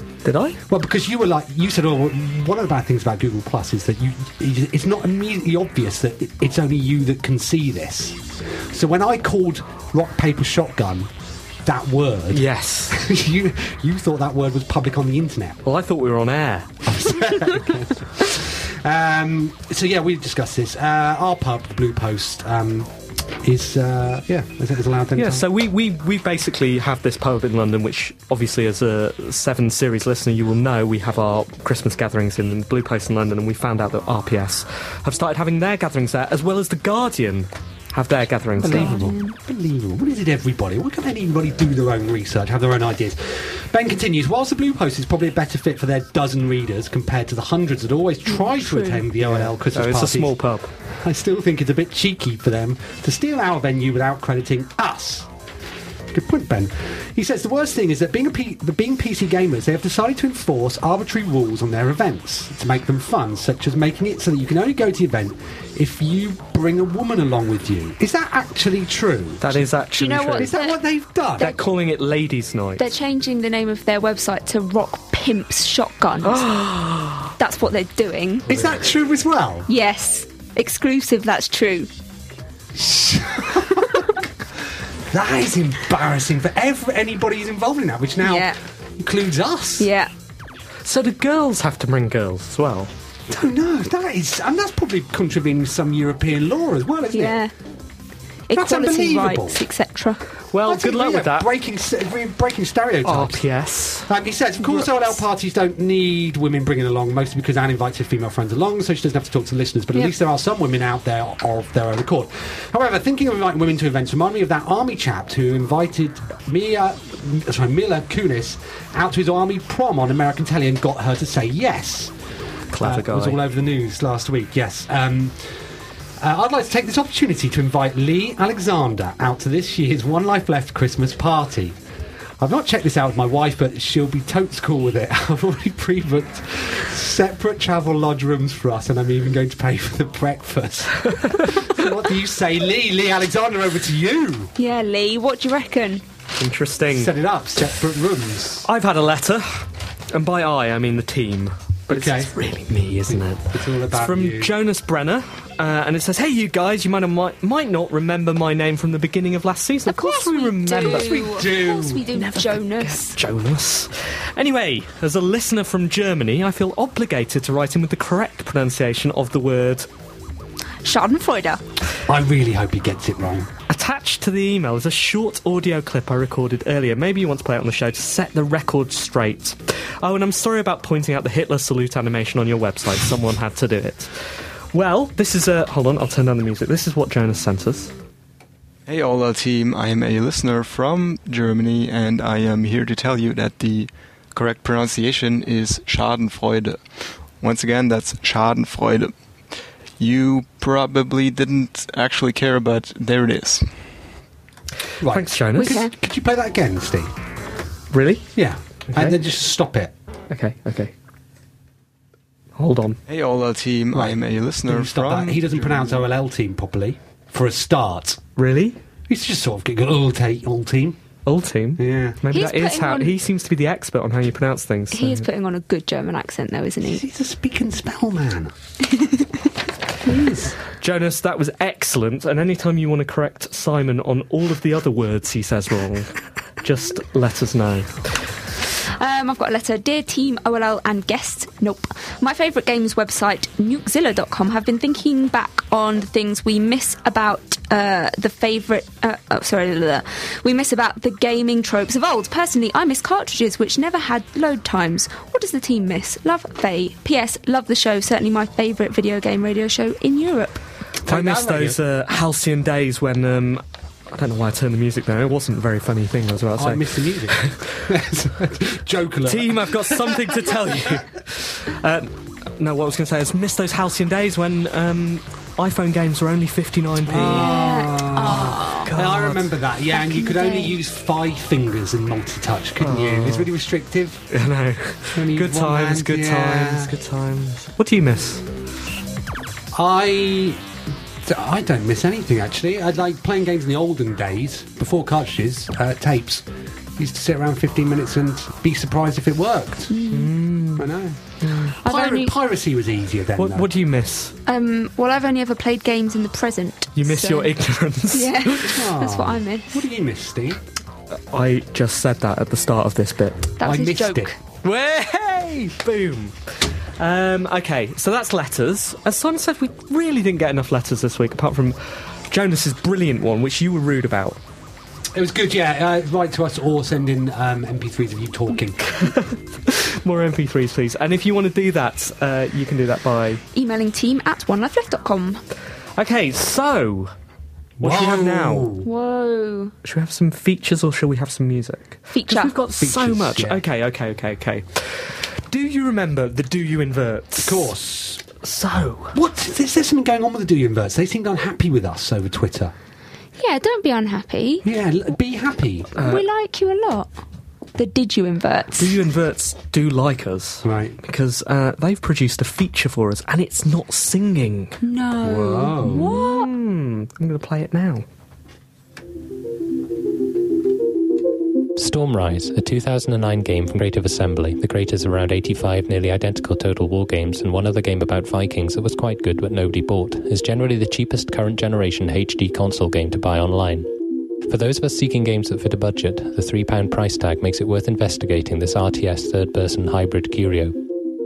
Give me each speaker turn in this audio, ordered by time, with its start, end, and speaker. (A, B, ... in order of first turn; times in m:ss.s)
0:00.2-0:00.6 A
0:00.7-0:11.1 B
0:11.6-0:15.6 B
0:12.3-0:13.0 A
0:15.6-0:16.8 A
0:16.8-0:25.4 B
0:25.2-0:38.9 A
0:38.6-0:50.4 B
0:38.6-0:39.4 C
0:48.3-0:49.0 C
0:49.2-0:50.7 A
0:50.9-0:55.3 B
0:56.1-1:09.6 B
1:09.4-1:10.5 A
1:10.0-1:10.8 C
1:10.4-1:11.6 B
1:11.4-1:12.8 A
1:12.8-1:16.6 C
1:16.2-1:17.3 A
1:17.4-1:18.5 C
1:18.5-1:19.7 B
1:19.7-1:21.9 C
1:22.7-1:24.2 B
1:25.1-1:29.9 B
1:28.2-1:28.6 C
1:29.8-1:30.1 C
1:30.8-1:32.9 A
1:33.3-1:37.4 B
1:37.1-1:37.5 C
1:38.5-1:40.2 C
1:38.5-1:39.6 B
1:40.5-1:41.5 A
1:40.6-1:43.4 B
1:43.0-1:44.1 A
1:44.1-2:02.1 B
2:02.7-2:03.4 A
2:02.8-2:05.5 B
2:06.2-2:11.8 B
2:12.4-2:24.5 B
2:21.2-2:21.6 A
2:24.6-2:26.0 C
2:26.4-2:27.1 A
2:26.9-2:28.7 B
2:28.6-2:41.4 A
2:31.9-2:32.3 B
2:32.9-2:34.5 B
2:39.9-2:43.2 C
2:40.8-2:42.1 B
2:42.1-2:49.9 A
2:50.8-2:51.6 C
2:52.0-2:53.5 B
2:53.7-3:04.1 A
3:04.7-3:07.9 A
3:08.9-3:16.8 D
3:17.4-3:19.1 D
3:20.0-3:23.7 D
3:25.0-3:27.1 B
3:25.0-3:25.8 A
3:25.6-3:25.9 C
3:27.9-3:28.3 A
3:28.3-3:29.9 B
3:28.9-3:29.2 A
3:30.3-3:30.9 A
3:32.6-3:33.0 A
3:33.1-3:36.0 D
3:33.9-3:38.2 B
3:38.4-3:38.8 A
3:39.1-3:41.0 B
3:41.2-3:45.3 A
3:41.8-3:42.2 B
3:42.3-3:43.1 C
3:44.9-3:47.0 C
3:46.8-3:48.5 B
3:48.9-3:49.3 C
3:50.1-3:50.5 B
3:50.6-3:57.9 A
3:59.0-4:20.6 C
4:21.0-4:21.8 B
4:21.1-4:27.6 A
4:26.6-4:30.6 B
4:29.2-4:37.5 A
4:37.1-4:44.3 B
4:37.3-4:38.9 C
4:38.3-4:39.5 A
4:39.9-4:40.7 C
4:42.8-4:43.5 A
4:44.3-4:48.4 A
4:45.2-4:46.9 B
4:49.7-4:50.6 B
4:51.2-4:56.4 B
4:57.0-4:59.9 B
4:59.9-5:00.3 C
5:00.1-5:01.8 A
5:00.8-5:01.2 B
5:01.8-5:03.7 B
5:01.8-5:02.3 C
5:03.4-5:04.3 A
5:04.4-5:07.5 C
5:07.0-5:08.7 A
5:08.1-5:09.8 C
5:08.6-5:10.6 B
5:11.1-5:13.5 A
5:13.6-5:14.4 C
5:13.6-5:14.3 B
5:14.6-5:16.4 A
5:17.0-5:24.4 A
5:25.1-5:29.1 B
5:29.0-5:33.4 A
5:33.5-5:35.4 C
5:36.0-5:37.1 A
5:37.8-5:38.9 B
5:37.8-5:38.7 A
5:38.8-5:39.7 C
5:39.8-5:47.7 A
5:42.1-5:42.5 C
5:42.8-5:43.6 B
5:47.4-5:48.2 B
5:48.4-5:49.2 A
5:49.1-5:52.7 B
5:53.4-5:54.6 C
5:54.6-5:56.0 B
5:56.0-5:56.2 A
5:56.0-5:57.1 C
5:57.7-5:58.9 C
5:58.8-6:04.8 A
6:00.6-6:01.0 B
6:04.8-6:06.5 C
6:05.2-6:06.2 B
6:05.8-6:08.0 A
6:11.8-6:23.9 E
6:24.5-6:30.8 E